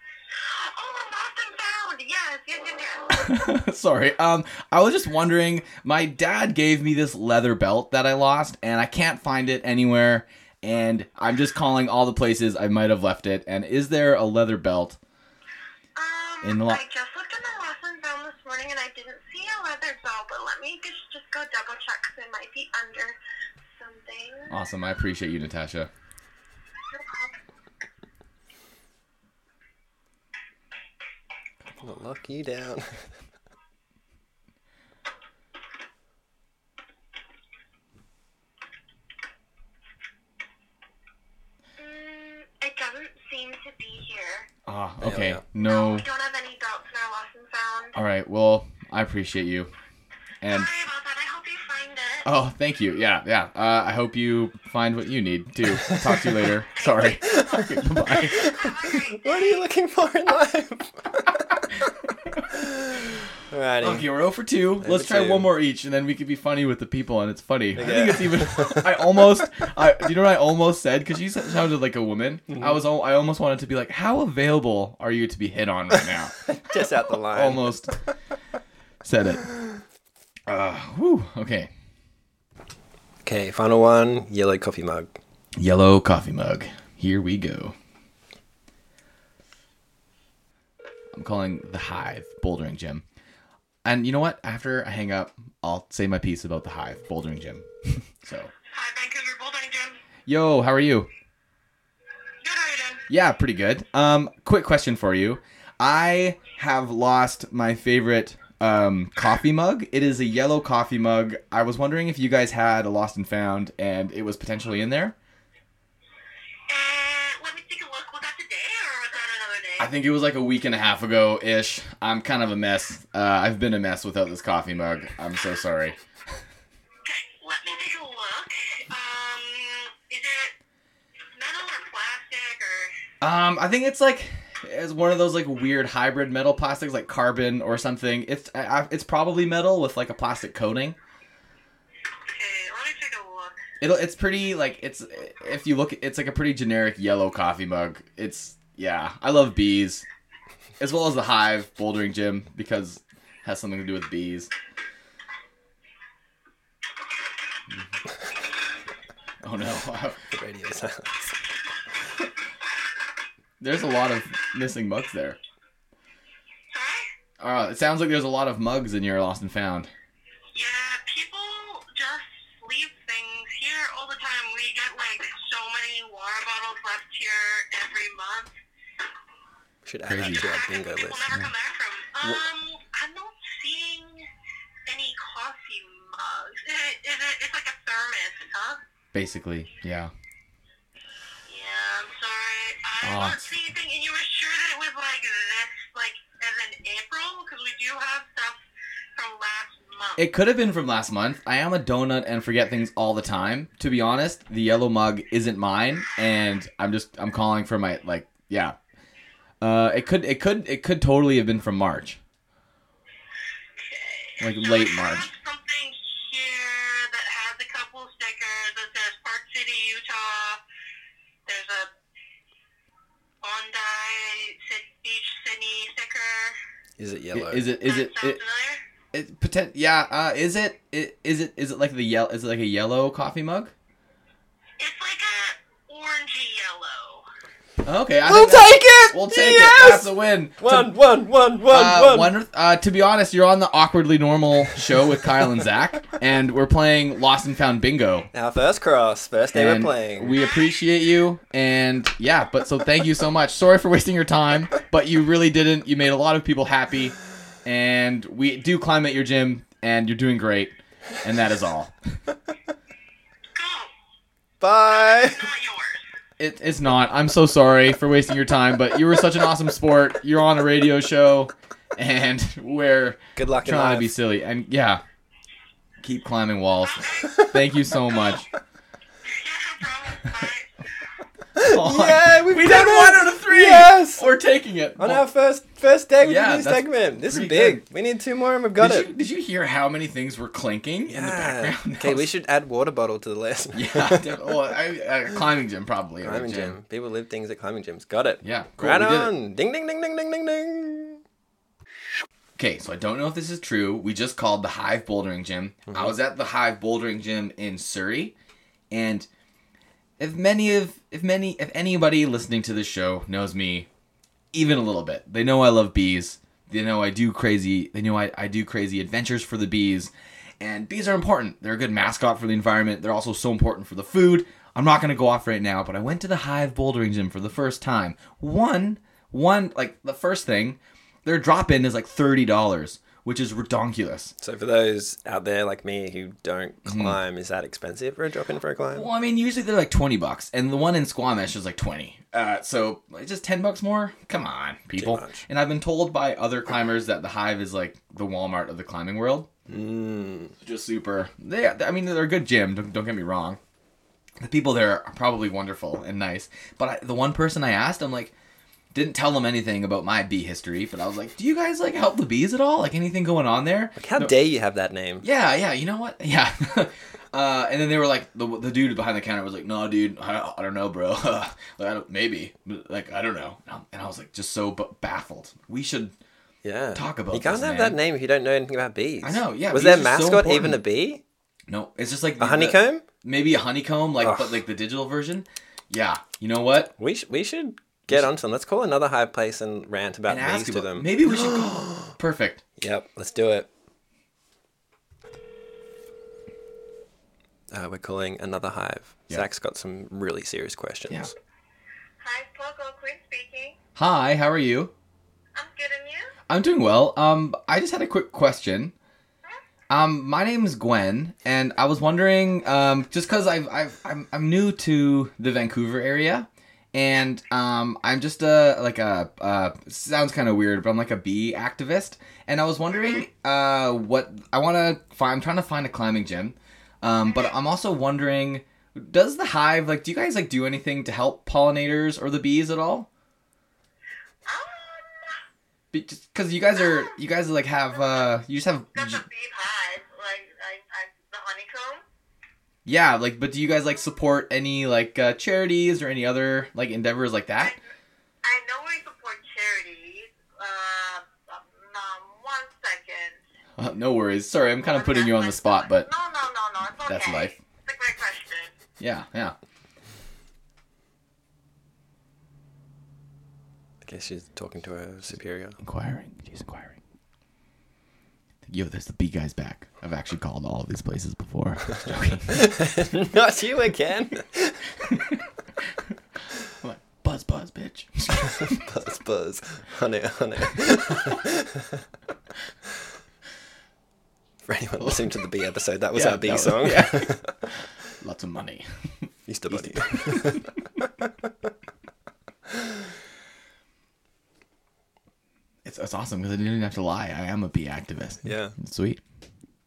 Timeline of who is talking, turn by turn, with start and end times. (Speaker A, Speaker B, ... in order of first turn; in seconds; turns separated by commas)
Speaker A: 0.3-3.2, Speaker B: 3.1-15.0, Speaker A: 15.9-23.2, Speaker B: 16.4-16.8, Speaker A: 23.8-24.5, Speaker B: 24.5-25.9, Speaker A: 26.9-27.3, Speaker C: 31.8-33.1, Speaker A: 41.8-44.5, Speaker B: 44.6-46.1, Speaker C: 45.0-45.4, Speaker A: 45.6-48.0, Speaker B: 47.9-49.7, Speaker B: 50.4-50.7, Speaker A: 50.5-52.3, Speaker B: 52.2-58.5, Speaker C: 55.7-56.4, Speaker A: 56.8-59.7, Speaker C: 57.2-61.3, Speaker C: 62.5-64.0, Speaker B: 63.8-76.7, Speaker C: 64.8-65.5, Speaker C: 67.8-69.2, Speaker C: 72.5-72.8, Speaker C: 76.4-78.1, Speaker B: 77.3-78.0, Speaker B: 79.0-79.5, Speaker B: 80.5-81.7, Speaker C: 83.2-85.2, Speaker B: 85.5-87.7, Speaker B: 91.1-93.0, Speaker B: 93.8-98.5, Speaker A: 98.7-100.0, Speaker B: 100.3-101.1, Speaker A: 102.4-103.0, Speaker B: 103.1-115.1, Speaker A: 116.7-119.9, Speaker B: 119.8-126.0, Speaker A: 127.0-130.5, Speaker A: 131.3-132.9, Speaker B: 133.2-141.0, Speaker A: 142.2-143.6, Speaker B: 143.8-150.1, Speaker B: 150.8-154.5, Speaker B: 159.4-160.2, Speaker C: 160.3-161.5, Speaker B: 163.6-165.4, Speaker A: 166.7-167.1, Speaker B: 167.4-169.9, Speaker A: 170.5-178.5, Speaker C: 179.8-181.3, Speaker B: 180.1-180.4, Speaker A: 180.2-184.3, Speaker A: 184.9-188.8, Speaker B: 189.1-190.1, Speaker A: 191.5-198.6, Speaker B: 193.0-193.5, Speaker A: 199.1-200.2, Speaker B: 200.2-208.8, Speaker B: 209.6-212.2, Speaker A: 213.8-220.6, Speaker B: 214.4-215.3, Speaker A: 221.4-221.9, Speaker A: 223.4-226.6, Speaker C: 227.0-227.7, Speaker B: 227.3-228.4, Speaker A: 227.8-228.8, Speaker B: 229.1-233.7, Speaker A: 234.8-237.3, Speaker B: 237.8-240.9, Speaker C: 238.2-242.3, Speaker B: 241.7-248.3, Speaker C: 248.3-250.3, Speaker B: 249.5-261.9, Speaker A: 250.3-250.7, Speaker A: 263.5-263.9, Speaker C: 264.6-265.5, Speaker A: 264.9-266.0, Speaker B: 266.4-275.0, Speaker C: 273.4-274.1, Speaker B: 276.0-278.5, Speaker A: 276.8-277.4, Speaker C: 277.3-277.6, Speaker A: 279.2-280.7, Speaker C: 281.6-284.2, Speaker B: 281.6-285.2, Speaker C: 285.0-289.1, Speaker B: 286.2-287.8, Speaker B: 288.8-292.3, Speaker C: 291.1-294.4, Speaker B: 293.7-296.8, Speaker C: 296.2-301.2, Speaker B: 298.4-299.3, Speaker B: 302.6-308.3, Speaker B: 308.9-309.3, Speaker B: 310.2-313.9, Speaker B: 314.5-334.3, Speaker C: 334.4-339.1, Speaker B: 336.8-337.2, Speaker B: 338.9-349.5, Speaker C: 344.9-345.4, Speaker C: 349.7-350.6, Speaker B: 350.6-353.6, Speaker B: 354.4-358.3, Speaker B: 358.9-364.3, Speaker C: 364.0-365.2, Speaker B: 365.2-376.1, Speaker C: 376.6-381.2, Speaker B: 376.9-378.0, Speaker B: 379.2-380.8, Speaker B: 381.7-386.9, Speaker C: 382.4-383.0, Speaker C: 384.2-384.5, Speaker C: 387.0-392.1, Speaker B: 390.3-392.6, Speaker C: 392.8-393.7, Speaker C: 397.7-401.3, Speaker A: 402.2-403.8, Speaker B: 403.9-404.9, Speaker A: 405.5-406.3, Speaker B: 406.5-408.9, Speaker B: 409.9-433.1, Speaker A: 434.4-435.4, Speaker B: 435.9-439.2, Speaker A: 436.8-437.1, Speaker A: 438.9-442.0, Speaker B: 442.8-447.8, Speaker A: 448.4-453.4, Speaker B: 453.8-456.1, Speaker A: 454.8-458.7, Speaker B: 457.1-457.6, Speaker B: 459.0-459.6, Speaker C: 464.0-465.8, Speaker B: 465.8-467.0, Speaker B: 468.7-473.0, Speaker C: 472.5-474.9, Speaker B: 475.1-475.4, Speaker B: 476.8-478.8, Speaker C: 478.4-482.0, Speaker C: 484.6-487.5, Speaker B: 486.1-490.6, Speaker C: 489.5-490.7, Speaker B: 495.8-499.2, Speaker C: 498.4-498.8